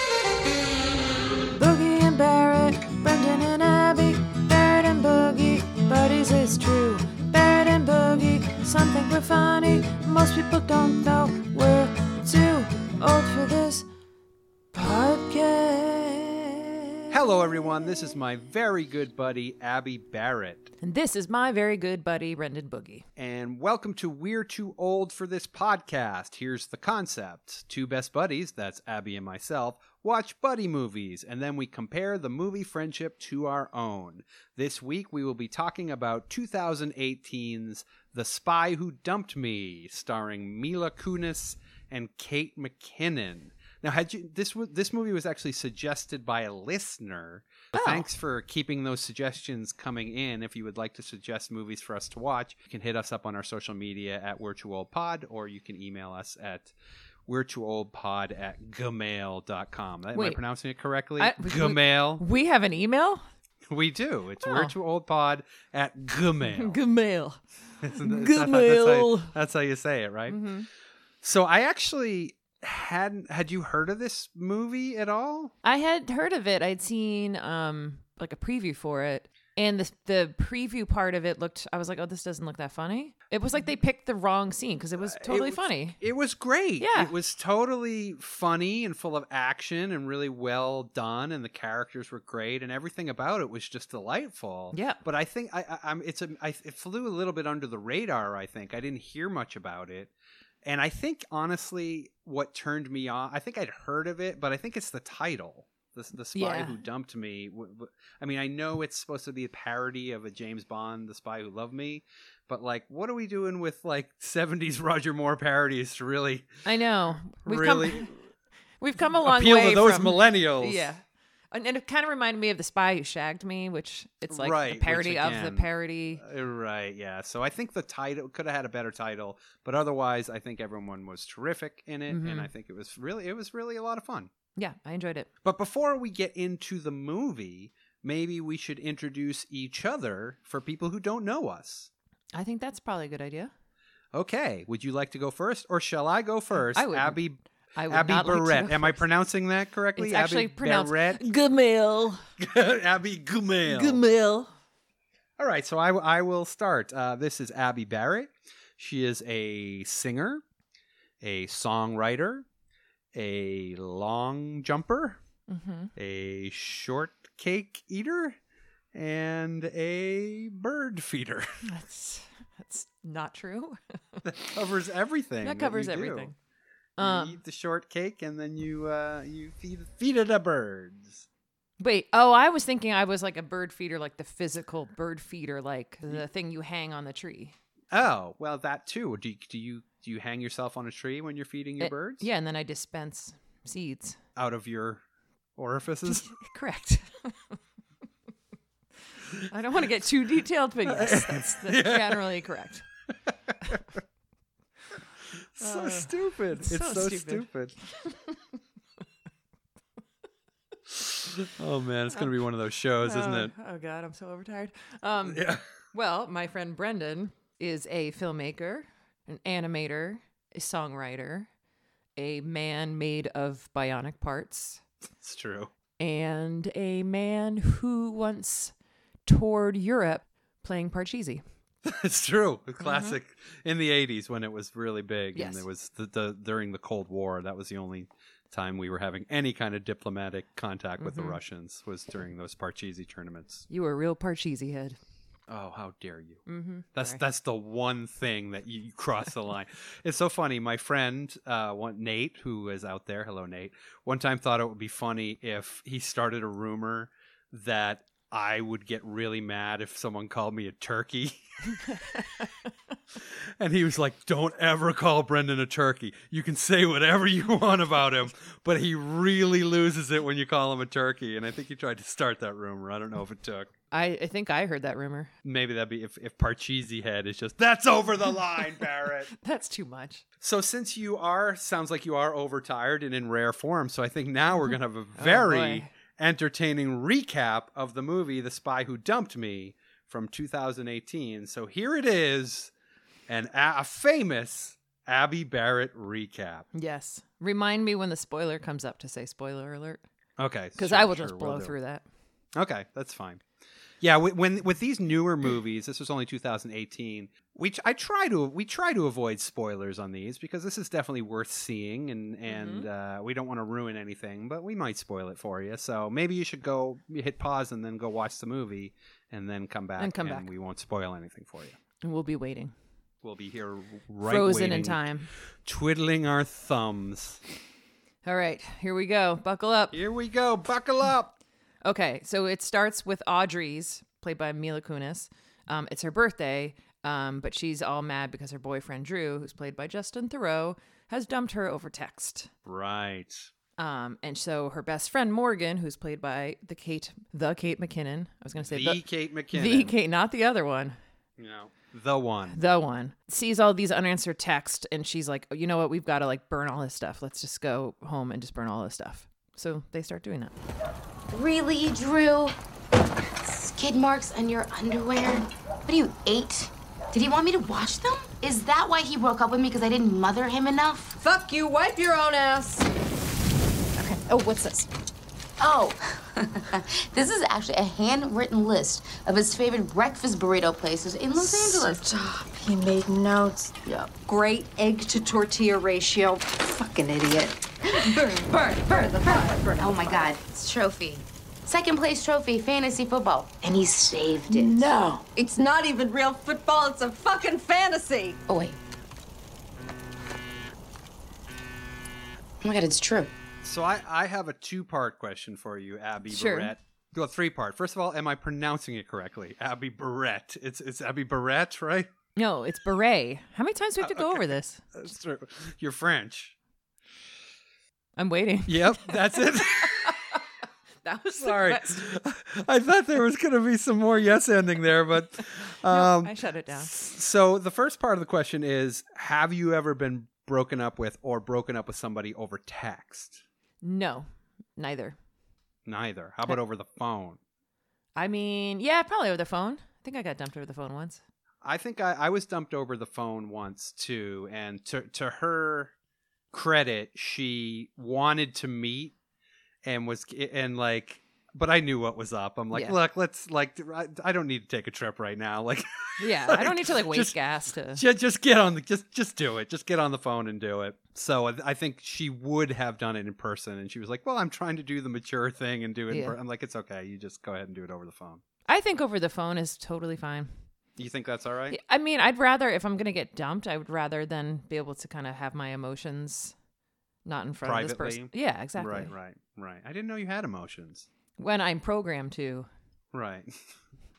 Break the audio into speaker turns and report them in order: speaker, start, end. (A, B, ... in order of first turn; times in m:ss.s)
0:01.5-0:13.9 A
0:14.7-0:17.1 A
0:17.1-0:20.7 B
0:20.8-0:23.0 A
0:23.2-0:56.7 B
0:47.7-0:48.1 A
0:57.3-1:02.2 B
1:00.1-1:00.4 A
1:01.2-1:03.2 A
1:03.7-1:06.8 B
1:04.4-1:04.7 A
1:06.4-1:09.3 A
1:07.8-1:10.4 B
1:10.3-1:10.7 A
1:11.2-1:15.5 B
1:15.6-1:26.0 A
1:25.0-1:40.1 B
1:26.8-1:27.1 A
1:34.7-1:35.0 A
1:40.6-1:56.6 B
1:46.3-1:46.8 A
1:56.6-1:58.1 A
1:57.3-1:58.2 B
1:58.8-2:06.2 A
1:59.1-2:00.9 B
2:04.3-2:14.3 B
2:12.1-2:12.5 A
2:14.6-2:15.3 A
2:15.4-2:21.9 B
2:22.3-2:23.5 A
2:24.1-2:31.3 B
2:26.7-2:27.2 A
2:27.7-2:29.0 A
2:30.0-2:32.2 A
2:32.4-2:34.0 B
2:33.6-2:34.5 A
2:35.4-2:40.4 B
2:41.2-2:42.4 B
2:43.1-2:45.2 B
2:45.5-2:45.9 A
2:46.0-2:48.4 B
2:48.9-2:51.5 B
2:51.6-2:54.2 A
2:54.2-2:56.3 B
2:55.4-2:56.3 A
2:57.0-2:57.4 A
2:57.0-3:01.2 B
3:01.8-3:07.5 A
3:07.9-3:12.3 B
3:11.8-3:14.2 A
3:14.4-3:15.0 B
3:15.6-3:16.3 B
3:16.0-3:17.4 A
3:19.5-3:22.8 A
3:20.8-3:22.4 B
3:23.5-3:23.8 B
3:25.6-3:27.8 B
3:25.6-3:28.3 A
3:31.0-3:33.5 B
3:33.0-3:41.5 A
3:35.2-3:35.6 B
3:42.2-3:44.8 A
3:45.2-3:45.7 B
3:46.0-3:48.7 A
3:49.2-3:51.4 A
3:51.8-4:03.7 B
3:52.8-3:53.2 A
3:55.3-3:55.6 A
4:01.0-4:01.4 A
4:03.7-4:05.0 A
4:05.5-4:21.4 B
4:06.5-4:07.2 A
4:23.6-4:33.7 B
4:33.9-4:35.3 A
4:35.4-4:39.3 B
4:39.3-4:40.2 A
4:40.4-4:52.7 B
4:44.6-4:45.9 A
4:53.3-4:56.7 B
4:56.7-5:00.0 A
5:00.4-5:01.8 B
5:00.8-5:02.0 A
5:02.6-5:03.4 B
5:04.0-5:21.8 B
5:12.5-5:12.9 A
5:20.0-5:20.5 A
5:22.0-5:22.7 A
5:23.2-5:25.1 B
5:24.2-5:25.3 A
5:25.6-5:27.4 B
5:28.2-5:30.0 A
5:29.9-5:31.3 B
5:31.8-5:42.5 A
5:42.6-5:43.5 B
5:43.8-5:49.0 A
5:48.7-5:49.9 B
5:49.5-5:51.0 A
5:51.4-5:52.6 B
5:52.5-6:00.5 A
6:01.3-6:02.5 C
6:03.4-6:11.2 C
6:11.2-6:12.9 D
6:14.0-6:14.8 A
6:15.6-6:22.1 C
6:21.4-6:28.3 D
6:27.9-6:35.1 C
6:28.9-6:30.2 D
6:34.5-6:38.4 D
6:38.5-6:38.8 C
6:42.6-6:43.3 C
6:43.6-6:52.1 B
6:46.3-6:46.7 A
6:52.4-6:54.9 A
6:54.0-6:56.5 B
6:58.2-7:00.4 A
6:58.7-7:00.2 B
7:01.0-7:02.1 A
7:01.4-7:13.4 B
7:05.8-7:06.9 A
7:13.8-7:15.2 A
7:15.8-7:17.4 B
7:18.2-7:21.2 A
7:21.6-7:25.9 B
7:26.5-7:29.1 B
7:29.8-7:37.4 B
7:32.7-7:33.0 A
7:36.2-7:38.0 A
7:37.9-7:48.4 B
7:46.1-7:46.4 A
7:48.7-7:50.5 A
7:51.0-7:51.8 B
7:51.7-7:56.5 A
7:57.2-7:59.1 A
7:57.6-8:01.1 B
8:01.4-8:02.7 A
8:03.1-8:03.6 B